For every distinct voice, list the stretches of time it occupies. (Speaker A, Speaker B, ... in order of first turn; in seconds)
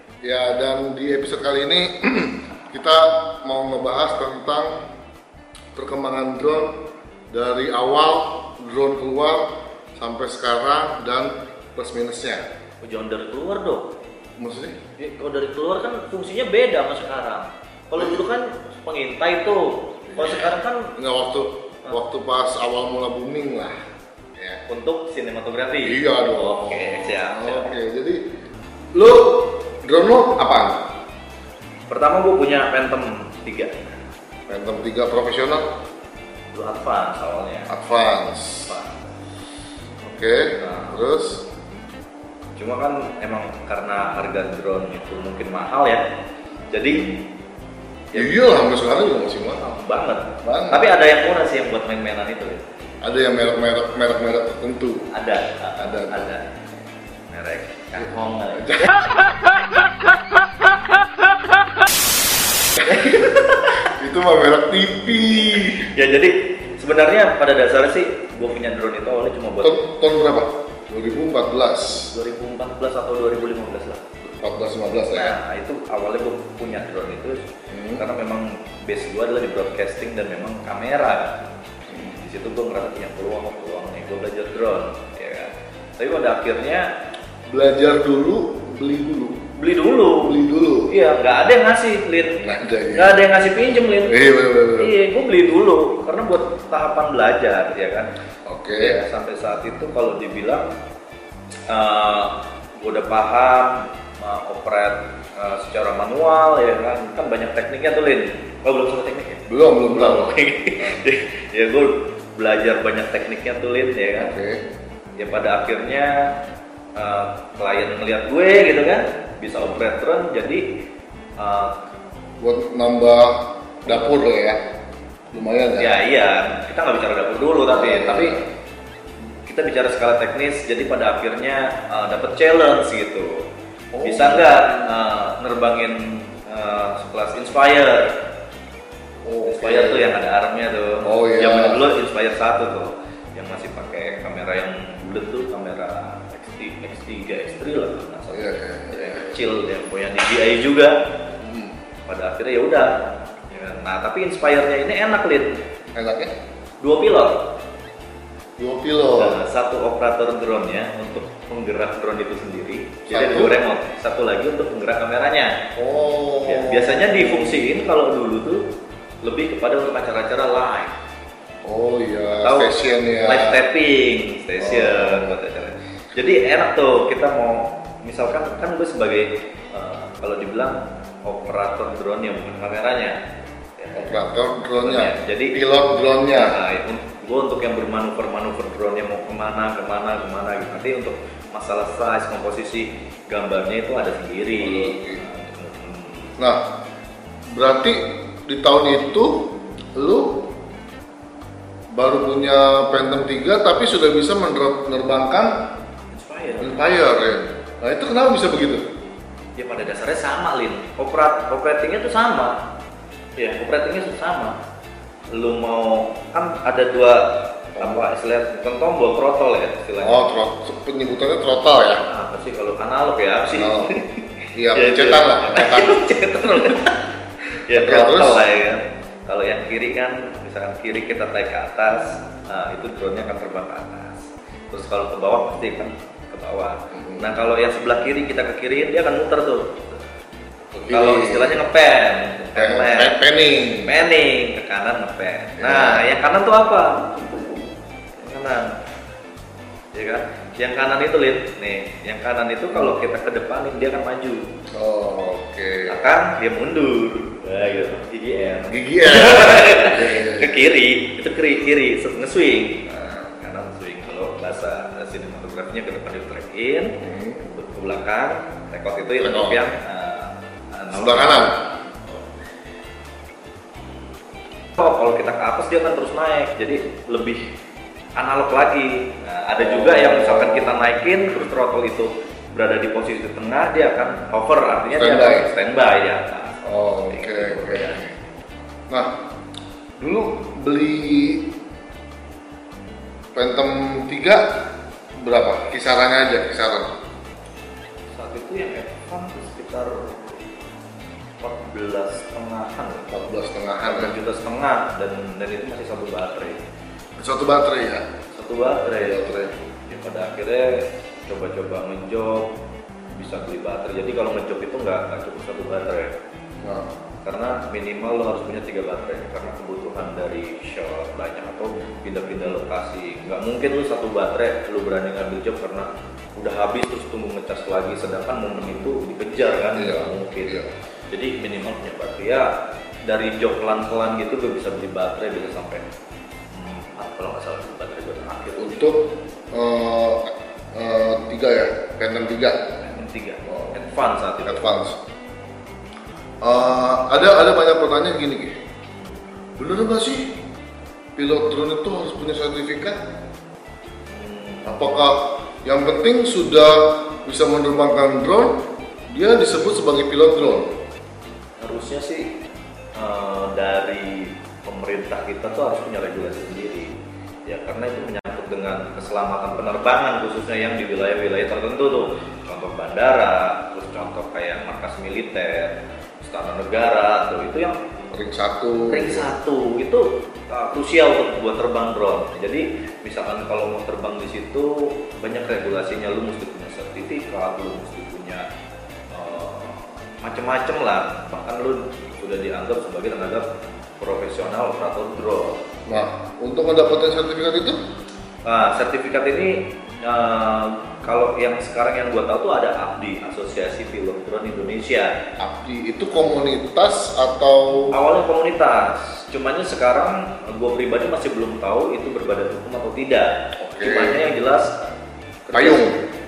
Speaker A: 0.2-4.7, 5.7-6.8, 7.3-12.4, 14.4-14.8, 17.9-18.2, 20.1-23.8, 24.4-24.6, 25.8-28.2, 28.9-30.9, 34.5-35.7, 37.7-38.7, 40.0-41.5, 48.1-49.6, 50.4-50.9, 53.0-55.1, 55.8-56.3, 58.0-59.0, 62.8-63.3, 63.8-65.9, 69.6-72.1, 74.2-75.3, 77.7-78.0, 87.5-89.5, 90.1-90.9, 92.4-93.3, 94.0-94.9, 98.5-99.0, 109.5-111.1, 114.2-114.6, 122.4-124.7, 125.3-126.0, 127.7-128.5, 133.9-134.9, 139.2-140.2, 141.0-141.9, 148.3-149.4, 151.4-151.7, 155.9-156.3, 158.6-159.4, 163.1-163.6, 165.8-167.7, 171.6-173.6, 174.6-175.4, 183.9-186.6, 194.6-195.2, 197.5-200.5, 201.9-205.7, 206.6-208.8, 217.8-218.1, 220.0-222.0, 223.5-223.9, 224.5-226.1, 227.7-228.4, 236.9-237.3, 240.9-241.6, 242.5-243.9, 245.6-246.2, 254.7-256.1, 258.6-260.6, 267.0-267.4, 269.2-269.6, 270.9-271.5, 279.5-280.9, 284.9-285.5, 286.6-288.1, 290.0-291.5, 293.3-296.9, 303.1-304.1, 307.2-308.1, 308.9-309.6, 316.6-316.9, 329.7-330.7, 338.6-342.7, 343.4-343.8, 344.4-345.0, 346.4-348.6, 349.6-350.3, 351.1-353.0, 354.6-360.7, 378.1-379.3, 395.9-397.8, 405.4-407.9, 413.6-414.3, 415.5-416.0
Speaker B: 12.8-13.9, 15.0-20.9, 24.7-27.7, 31.9-33.8, 36.5-37.7, 38.6-39.0, 40.6-41.0, 42.6-46.0, 46.7-47.1, 48.1-48.5, 49.5-52.6, 55.1-56.5, 57.3-59.1, 62.8-63.8, 65.8-69.8, 72.0-74.0, 75.1-86.9, 89.6-98.1, 98.7-100.7, 101.7-114.3, 115.2-116.3, 117.0-120.8, 121.4-121.8, 125.8-128.4, 129.4-133.5, 134.0-138.2, 139.4-150.9, 152.1-152.9, 153.5-155.6, 156.8-157.5, 159.1-165.6, 166.4-168.7, 169.2-170.9, 172.4-172.7, 173.2-183.2, 183.8-184.2, 184.8-185.6, 186.3-196.3, 206.1-207.1, 209.6-212.6, 213.4-214.6, 215.3-220.4, 222.0-239.8, 240.7-243.2, 243.8-247.2, 248.2-248.7, 249.9-254.4, 255.8-272.2, 274.8-277.4, 278.1-288.1, 298.1-300.4, 301.4-303.1, 303.8-306.6, 308.3-309.3, 309.8-312.5, 313.1-316.1, 317.2-332.5, 333.1-335.8, 336.5-338.9, 342.8-344.7, 354.1-354.8, 361.6-362.3, 362.9-366.9, 367.5-378.0, 378.9-388.4, 389.1-393.4, 394.0-395.7, 398.4-405.1, 407.9-414.8, 415.4-415.9